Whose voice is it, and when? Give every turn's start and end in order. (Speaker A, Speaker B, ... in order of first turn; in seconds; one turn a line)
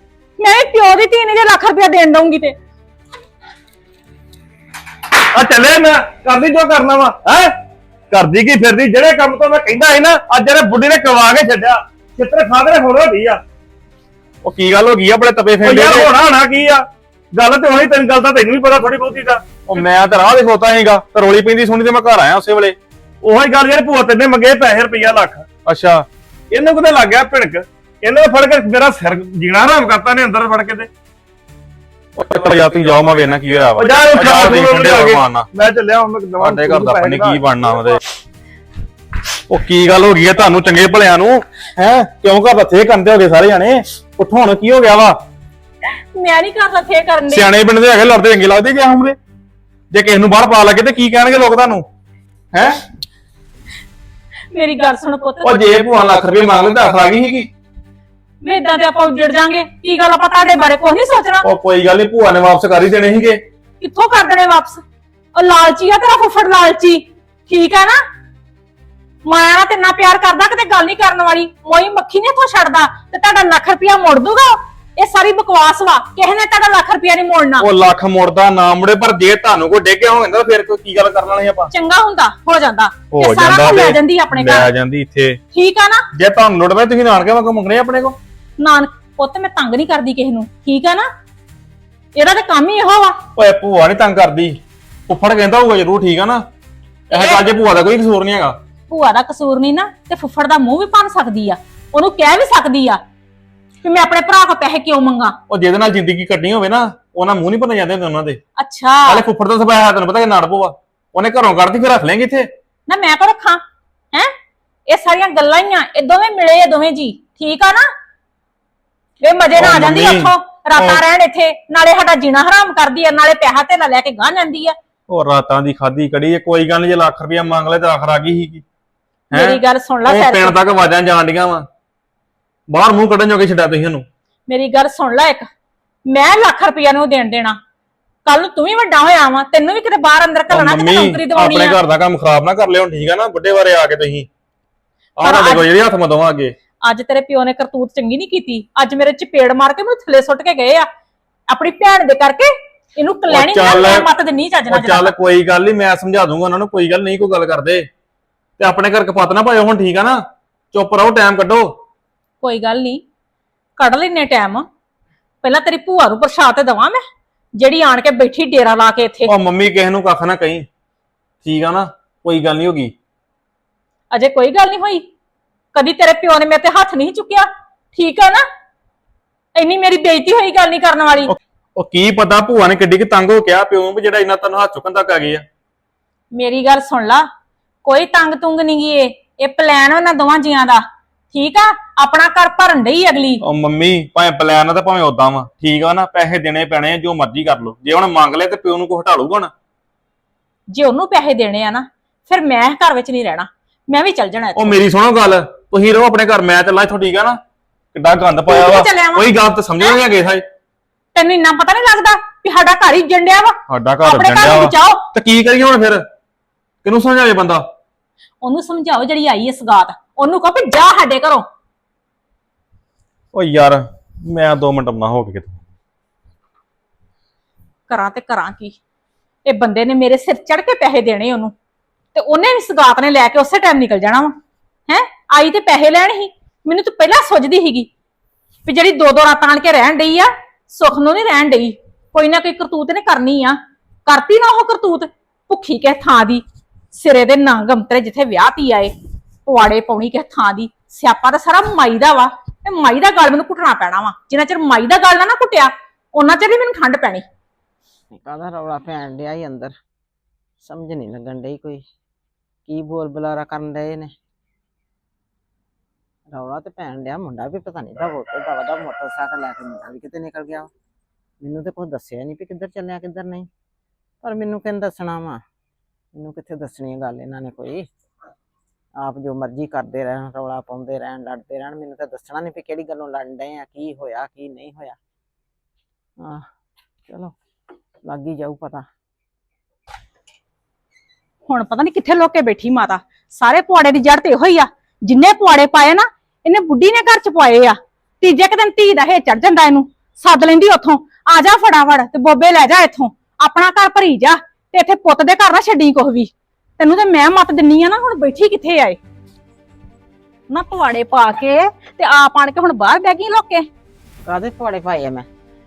Speaker A: 0.4-2.5
Speaker B: 5.3-7.5
Speaker B: 8.1-13.4
Speaker C: 14.4-16.1
Speaker B: 15.6-19.4
Speaker C: 19.7-22.8
Speaker B: 23.2-25.5
Speaker C: 25.7-26.1
Speaker B: 26.5-30.9
Speaker C: 32.2-35.5
Speaker B: 32.3-38.0
Speaker C: 36.4-38.0
Speaker C: 39.5-45.2
Speaker A: 45.9-47.5
Speaker C: 47.3-49.2
Speaker C: 49.9-51.9
Speaker C: 52.5-52.8
Speaker A: 54.5-55.6
Speaker C: 55.4-57.5
Speaker A: 58.4-61.5
Speaker C: 61.4-63.4
Speaker A: 63.8-64.8
Speaker A: 65.3-68.0
Speaker A: 69.3-77.7
Speaker C: 77.6-81.7
Speaker A: 81.7-84.7
Speaker C: 83.1-85.4
Speaker A: 85.5-86.0
Speaker C: 86.1-88.2
Speaker A: 88.6-91.1
Speaker A: 92.2-93.2
Speaker C: 93.4-96.4
Speaker C: 97.1-98.6
Speaker A: 97.1-97.4
Speaker A: 98.9-103.0
Speaker A: 103.8-105.4
Speaker C: 105.5-108.4
Speaker A: 108.6-109.2
Speaker C: 109.1-112.5
Speaker A: 112.9-113.6
Speaker A: 114.9-117.9
Speaker A: 119.2-124.8
Speaker C: 119.6-121.0
Speaker C: 125.1-128.6
Speaker C: 129.3-131.7
Speaker A: 129.3-130.6
Speaker C: 132.7-134.1
Speaker A: 134.5-135.5
Speaker A: 136.1-137.6
Speaker A: 138.2-141.8
Speaker C: 140.5-144.3
Speaker C: 145.2-146.6
Speaker A: 145.2-145.7
Speaker A: 146.8-150.9
Speaker A: 151.5-155.1
Speaker C: 153.3-154.1
Speaker C: 154.7-157.9
Speaker C: 158.6-160.2
Speaker C: 160.7-161.7
Speaker A: 162.4-163.0
Speaker A: 163.8-164.7
Speaker A: 165.4-167.0
Speaker A: 167.6-169.3
Speaker C: 169.3-170.7
Speaker C: 171.4-172.9
Speaker A: 174.1-175.0
Speaker A: 175.7-178.4
Speaker A: 179.6-181.3
Speaker C: 181.8-185.4
Speaker A: 186.3-187.3
Speaker A: 187.8-193.4
Speaker C: 193.4-199.5
Speaker A: 200.7-204.8
Speaker C: 204.6-207.4
Speaker C: 207.9-210.4
Speaker A: 208.5-209.3
Speaker A: 211.1-215.0
Speaker C: 213.7-216.0
Speaker C: 216.8-217.7
Speaker A: 218.4-221.4
Speaker C: 223.3-225.6
Speaker A: 227.9-228.8
Speaker A: 229.4-231.5
Speaker A: 232.1-234.3
Speaker A: 234.9-237.9
Speaker A: 238.7-248.9
Speaker A: 249.4-257.2
Speaker D: 258.1-259.7
Speaker D: 260.6-261.8
Speaker D: 262.7-264.1
Speaker D: 266.3-270.7
Speaker D: 271.4-273.5
Speaker D: 274.2-275.4
Speaker D: 276.1-277.9
Speaker D: 279.0-285.0
Speaker D: 287.1-287.3
Speaker D: 288.0-288.9
Speaker A: 291.5-309.0
Speaker A: 310.5-313.7
Speaker D: 314.3-315.3